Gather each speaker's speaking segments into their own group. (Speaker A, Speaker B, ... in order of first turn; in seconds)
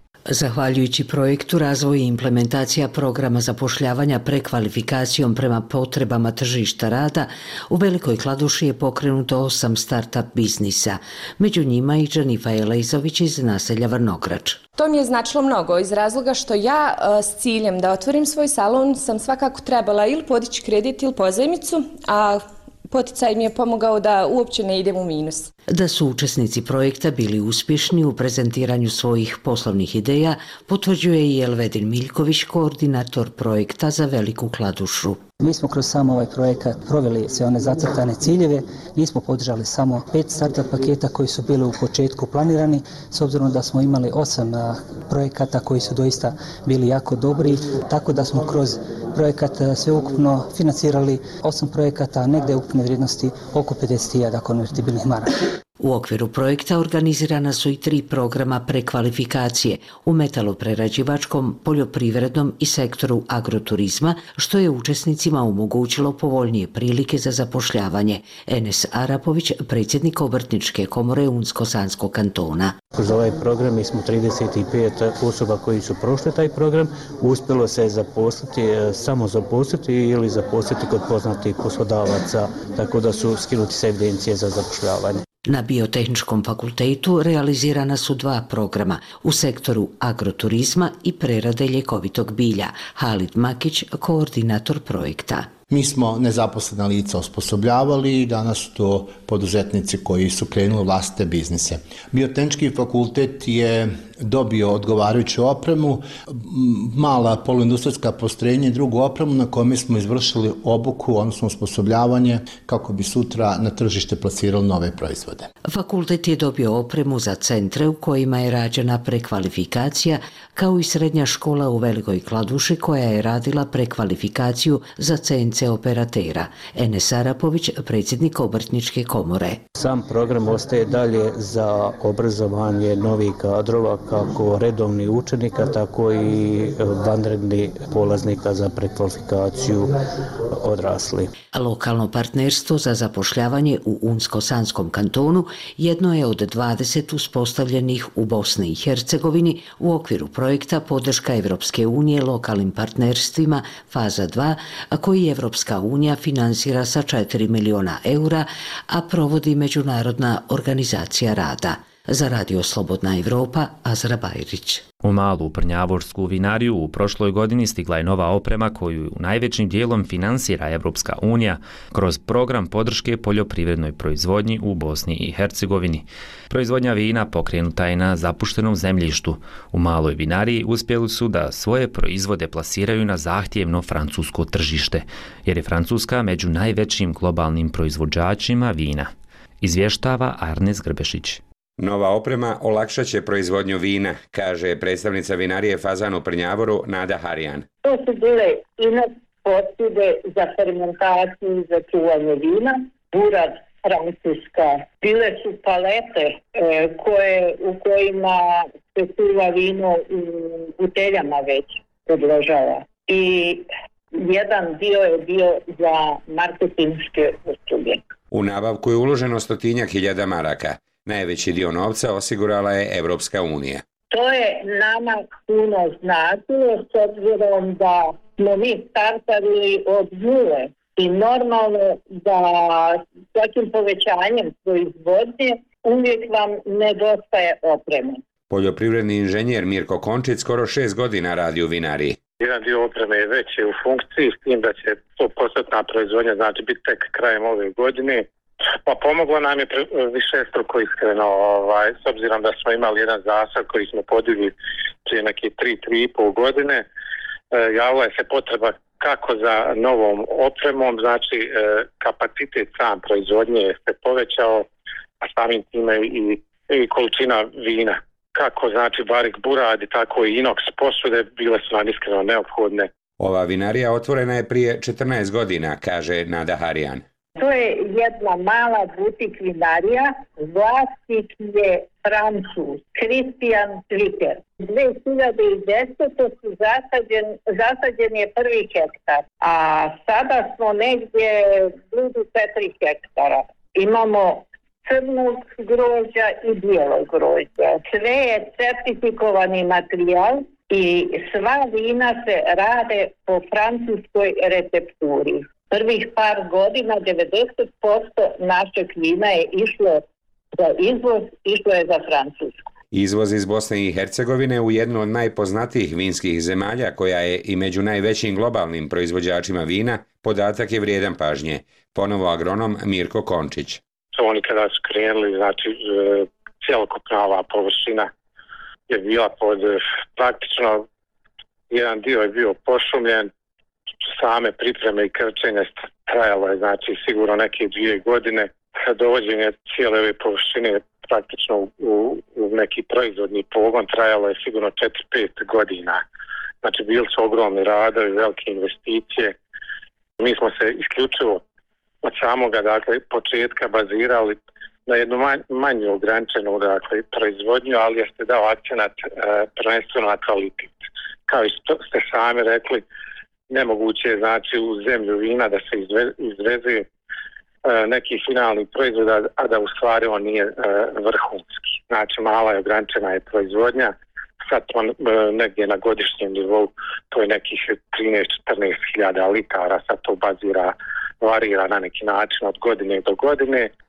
Speaker A: 0.3-14.6, 25.7-35.2, 55.8-72.8, 85.5-95.5, 115.7-129.6, 141.5-164.8
Speaker B: 14.8-25.5
Speaker C: 35.4-55.3
Speaker D: 72.9-85.2, 129.8-139.9, 140.5-141.3
Speaker E: 95.7-115.5
Speaker F: 165.0-191.4
Speaker G: 191.8-197.7, 218.3-223.8, 238.5-242.2, 273.2-277.0, 312.9-323.8
Speaker H: 197.8-218.0, 224.1-238.2, 277.4-310.0, 310.6-312.7
Speaker I: 242.4-248.2, 248.8-254.5, 255.1-256.8, 257.5-264.7, 265.2-272.9, 324.1-328.1, 328.9-330.9, 331.7-333.3, 334.1-346.0, 346.6-349.3, 350.2-351.4, 352.0-354.4, 354.9-360.8, 361.3-362.8, 363.5-366.8, 367.6-373.9, 374.4-383.7